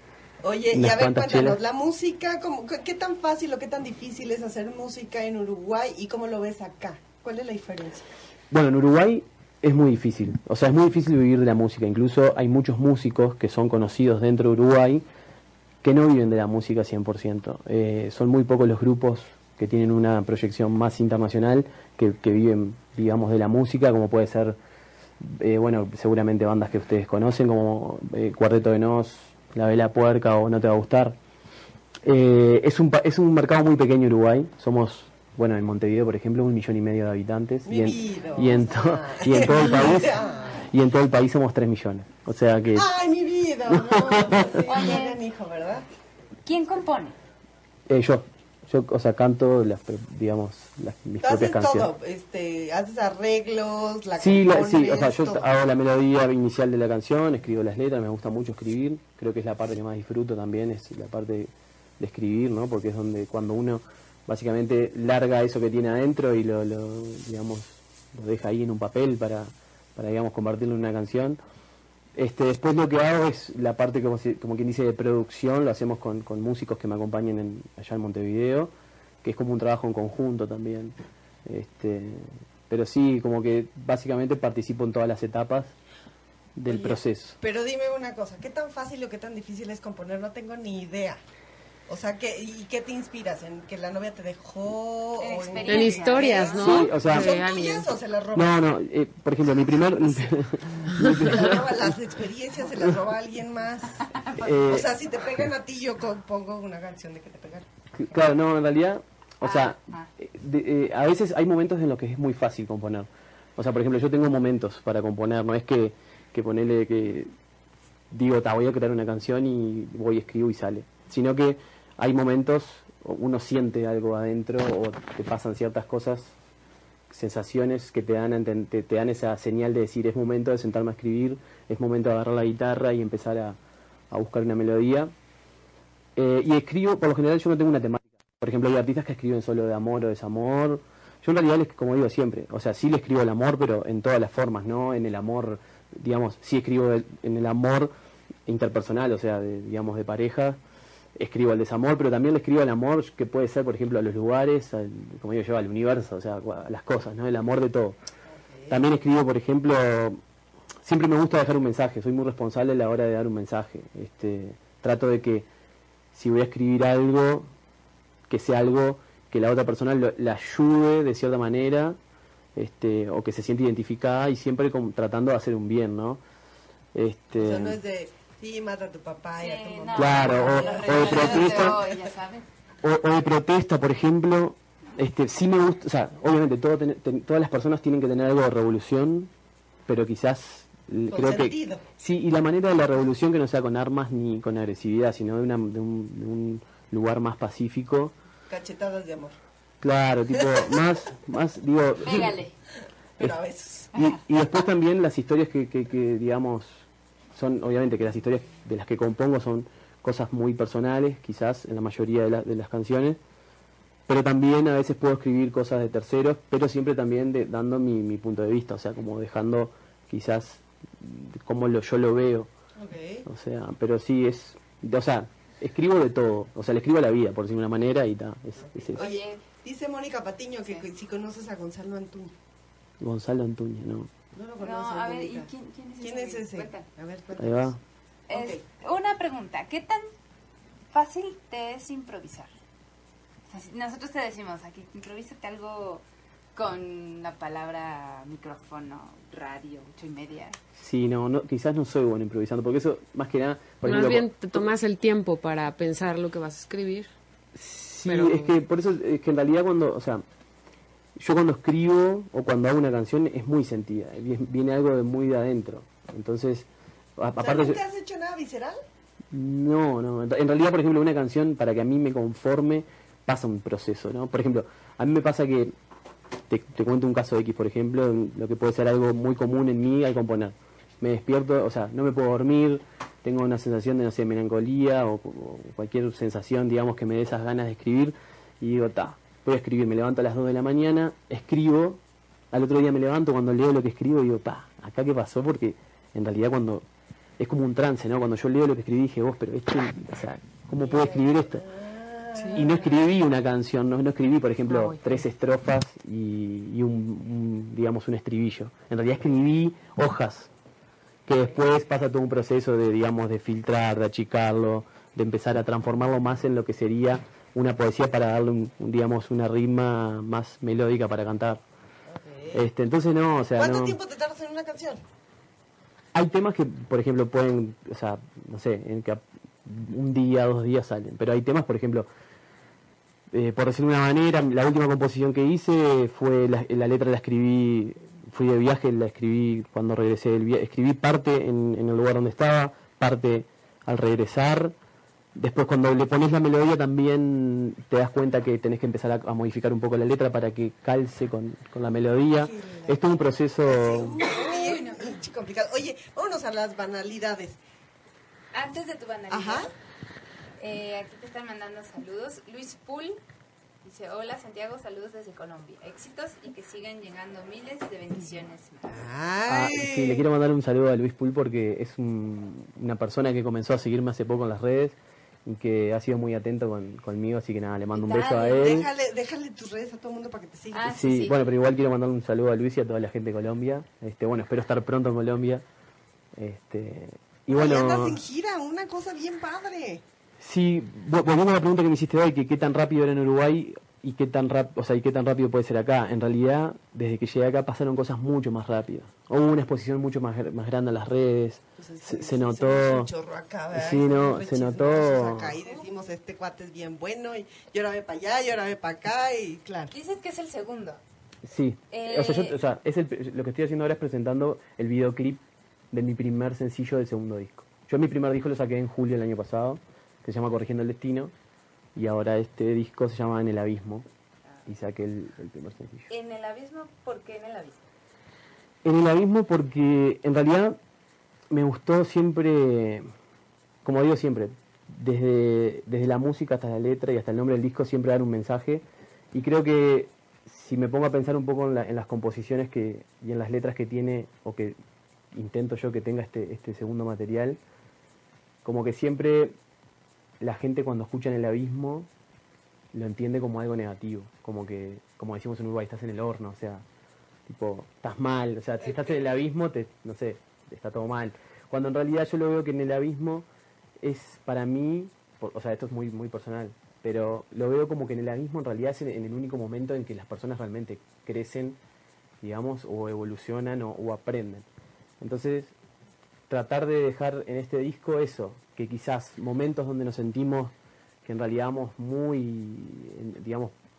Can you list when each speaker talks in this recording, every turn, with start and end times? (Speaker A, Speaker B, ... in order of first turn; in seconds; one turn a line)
Speaker A: 0.4-8.1
Speaker B: 0.7-1.6
Speaker B: 8.5-15.1
Speaker B: 15.8-24.6
Speaker B: 25.2-31.2
Speaker B: 32.0-42.9
Speaker A: 37.7-40.6
Speaker A: 42.8-45.9
Speaker B: 43.7-44.7
Speaker C: 44.7-45.2
Speaker C: 46.5-47.2
Speaker B: 47.9-51.9
Speaker A: 51.2-55.5
Speaker B: 54.2-71.4
Speaker B: 72.2-78.7
Speaker B: 79.2-81.0
Speaker B: 81.5-85.7
Speaker B: 86.6-87.4
Speaker A: 86.7-91.2
Speaker A: 91.9-98.6
Speaker C: 95.2-96.7
Speaker D: 95.6-97.9
Speaker B: 96.5-97.4
Speaker B: 98.3-101.9
Speaker A: 101.0-107.7
Speaker D: 101.0-101.5
Speaker C: 104.1-104.5
Speaker B: 104.4-104.9
Speaker B: 108.0-117.3
Speaker C: 109.4-110.1
Speaker B: 118.1-126.3
Speaker B: 127.1-133.6
Speaker B: 134.1-135.1
Speaker B: 136.2-147.9
Speaker B: 148.5-150.6
Speaker B: 151.2-158.0
Speaker A: 158.3-158.8
Speaker B: 158.7-160.2
Speaker B: 160.8-165.5
Speaker B: 166.1-167.5
Speaker B: 168.3-172.0
Speaker B: 172.6-176.2
Speaker B: 176.9-177.8
Speaker A: 177.3-181.7
Speaker C: 179.4-182.4
Speaker B: 179.9-181.8
Speaker B: 182.8-189.3
Speaker B: 189.9-198.1
Speaker A: 191.1-191.8
Speaker A: 198.5-199.4
Speaker B: 199.8-202.4
Speaker C: 202.0-202.5
Speaker A: 203.2-203.9
Speaker B: 203.9-206.8
Speaker B: 207.3-213.2
Speaker B: 214.1-222.5
Speaker A: 222.8-223.3
Speaker B: 223.3-229.0
Speaker A: 228.7-232.3
Speaker C: 229.0-229.4
Speaker B: 233.0-234.1
Speaker A: 234.3-235.5
Speaker C: 234.6-236.9
Speaker A: 236.0-237.7
Speaker B: 237.4-237.8
Speaker C: 238.3-240.1
Speaker A: 238.3-238.6
Speaker C: 240.9-242.5
Speaker C: 243.5-246.0
Speaker C: 246.6-250.6
Speaker B: 250.8-254.6
Speaker D: 253.8-257.1
Speaker B: 257.6-260.2
Speaker D: 258.1-258.6
Speaker B: 261.2-267.8
Speaker A: 267.4-268.8
Speaker B: 269.3-275.7
Speaker B: 276.5-292.0
Speaker B: 292.5-296.9
Speaker B: 297.4-301.6
Speaker A: 300.8-302.9
Speaker D: 302.4-302.6
Speaker B: 302.6-310.5
Speaker D: 304.7-305.2
Speaker B: 311.3-321.6
Speaker A: 322.1-322.6
Speaker B: 322.5-324.0
Speaker A: 323.6-325.0
Speaker B: 326.1-332.1
Speaker B: 333.3-344.7
Speaker B: 345.4-354.3
Speaker A: 352.4-353.0
Speaker A: 353.7-357.6
Speaker C: 354.2-355.2
Speaker C: 358.5-359.7
Speaker A: 359.3-359.7
Speaker C: 360.6-363.2
Speaker C: 363.8-369.1
Speaker A: 368.9-370.2
Speaker B: 369.5-378.9
Speaker C: 377.9-378.9
Speaker A: 378.6-380.9
Speaker C: 380.7-381.4
Speaker B: 380.9-385.6
Speaker B: 386.4-388.2
Speaker A: 387.6-390.0
Speaker B: 390.4-403.1
Speaker A: 401.8-409.9
Speaker B: 403.7-405.6
Speaker C: 409.9-411.0
Speaker B: 411.4-421.3
Speaker C: 411.9-412.6
Speaker B: 421.9-424.1
Speaker B: 424.7-426.1
Speaker C: 426.1-427.9
Speaker B: 428.9-430.8
Speaker B: 431.5-433.1
Speaker B: 433.8-444.8
Speaker B: 445.3-447.6
Speaker B: 448.6-449.6
Speaker B: 450.4-452.1
Speaker B: 452.9-456.9
Speaker B: 457.5-463.5
Speaker B: 464.0-471.8
Speaker B: 472.4-474.7
Speaker B: 475.2-475.7
Speaker B: 476.5-480.7
Speaker B: 481.2-483.8